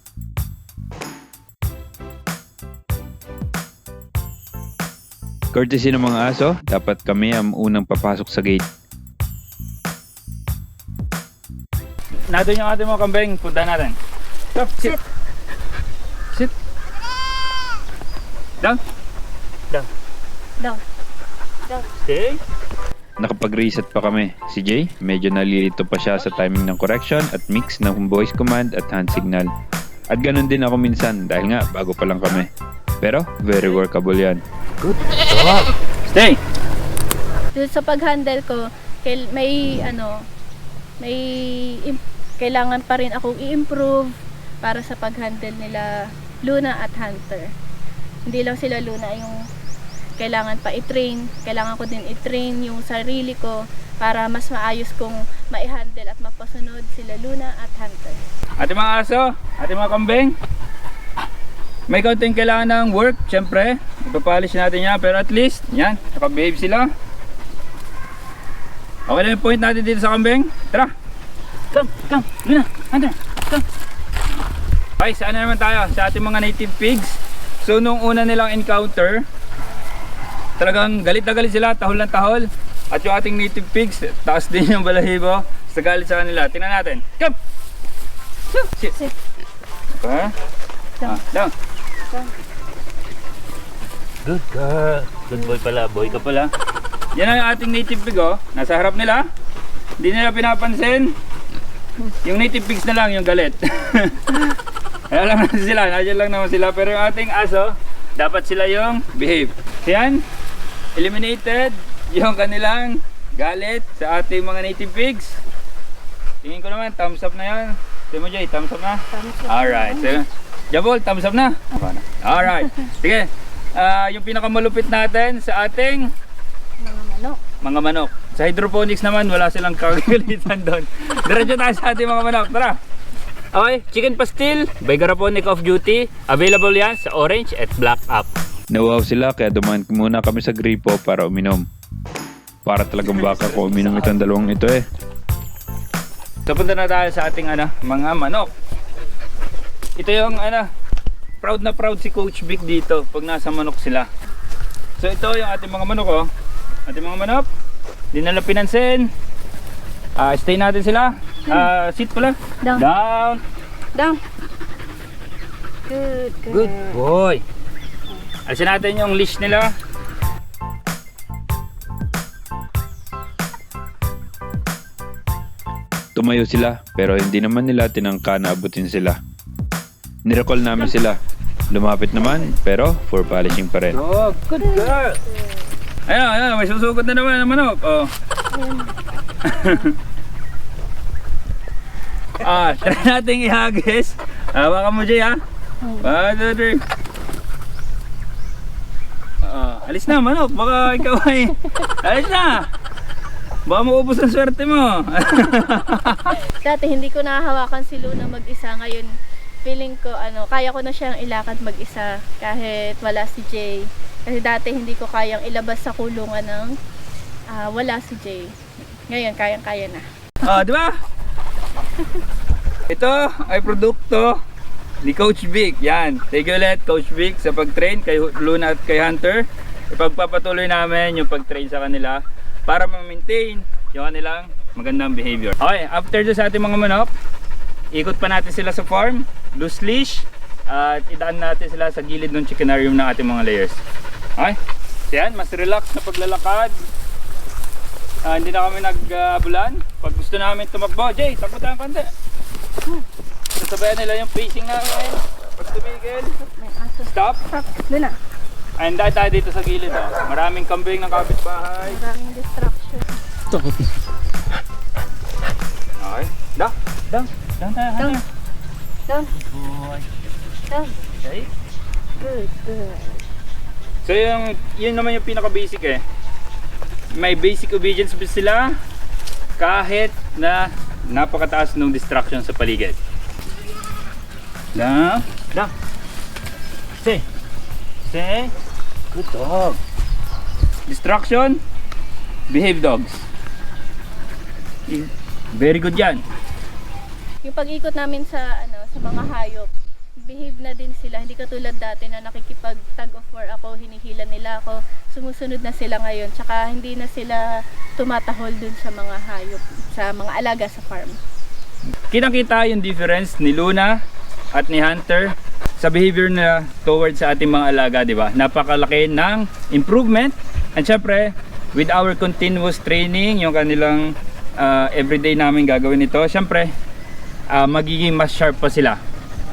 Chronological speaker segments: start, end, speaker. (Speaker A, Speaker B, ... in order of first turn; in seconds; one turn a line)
Speaker A: 5.5-8.7
Speaker B: 12.3-13.9
Speaker B: 14.5-15.0
Speaker B: 22.0-22.4
Speaker A: 23.2-29.5
Speaker A: 30.1-32.5
Speaker A: 33.0-34.4
Speaker B: 34.8-36.4
Speaker C: 37.5-40.1
Speaker C: 41.0-45.9
Speaker C: 46.4-47.5
Speaker C: 48.2-49.4
Speaker C: 50.2-58.2
Speaker B: 58.6-60.4
Speaker B: 61.9-66.9
Speaker B: 69.1-70.9
Speaker B: 71.7-73.6
Speaker B: 75.0-79.2
Speaker B: 80.6-87.3
Speaker B: 88.5-89.0
Speaker B: 90.0-90.3
Speaker B: 91.0-91.5
Speaker B: 94.2-96.5
Speaker B: 97.1-99.2
Speaker B: 100.0-101.1
Speaker B: 102.2-104.6
Speaker B: 105.1-110.2
Speaker B: 110.9-115.4
Speaker B: 116.4-126.1
Speaker C: 119.1-120.2
Speaker C: 126.8-127.4
Speaker B: 127.6-132.8
Speaker B: 133.5-138.3
Speaker A: 138.7-141.6
Speaker A: 142.7-144.8
Speaker B: 143.0-144.2
Speaker B: 146.4-148.5
Speaker B: 150.0-150.7
Speaker B: 151.4-154.1
Speaker B: 155.0-156.3
Speaker B: 156.8-157.4
Speaker B: 158.1-159.1
Speaker B: 160.2-163.4
Speaker C: 165.9-166.9
Speaker B: 166.5-167.4
Speaker B: 168.5-169.7
Speaker A: 176.1-179.2
Speaker A: 180.2-181.2
Speaker A: 181.7-184.0
Speaker B: 183.9-185.2
Speaker C: 184.6-185.3
Speaker B: 186.1-188.1
Speaker C: 188.5-188.9
Speaker B: 189.4-189.9
Speaker B: 192.4-195.4
Speaker B: 196.0-196.8
Speaker B: 199.4-202.7
Speaker B: 203.7-206.3
Speaker C: 206.3-209.1
Speaker C: 209.6-216.7
Speaker C: 217.5-218.5
Speaker C: 219.1-220.0
Speaker B: 220.4-220.9
Speaker B: 222.9-224.4
Speaker B: 225.0-237.1
Speaker B: 237.9-243.8
Speaker B: 245.1-246.8
Speaker B: 248.2-252.1
Speaker B: 253.5-256.4
Speaker C: 256.4-258.1
Speaker B: 257.0-257.4
Speaker B: 258.8-262.0
Speaker C: 261.8-263.2
Speaker B: 266.0-268.2
Speaker B: 269.3-270.0
Speaker C: 270.7-271.0
Speaker B: 271.2-271.5
Speaker C: 272.2-273.2
Speaker B: 274.0-276.0
Speaker B: 277.1-278.8
Speaker B: 279.6-283.0
Speaker B: 284.7-285.7
Speaker B: 288.1-288.5
Speaker B: 289.1-289.8
Speaker B: 290.9-291.6
Speaker B: 292.5-293.2
Speaker B: 294.9-296.2
Speaker C: 297.4-299.7
Speaker C: 300.2-307.4
Speaker C: 308.0-311.1
Speaker B: 312.1-313.9
Speaker B: 314.5-326.7
Speaker B: 327.5-329.0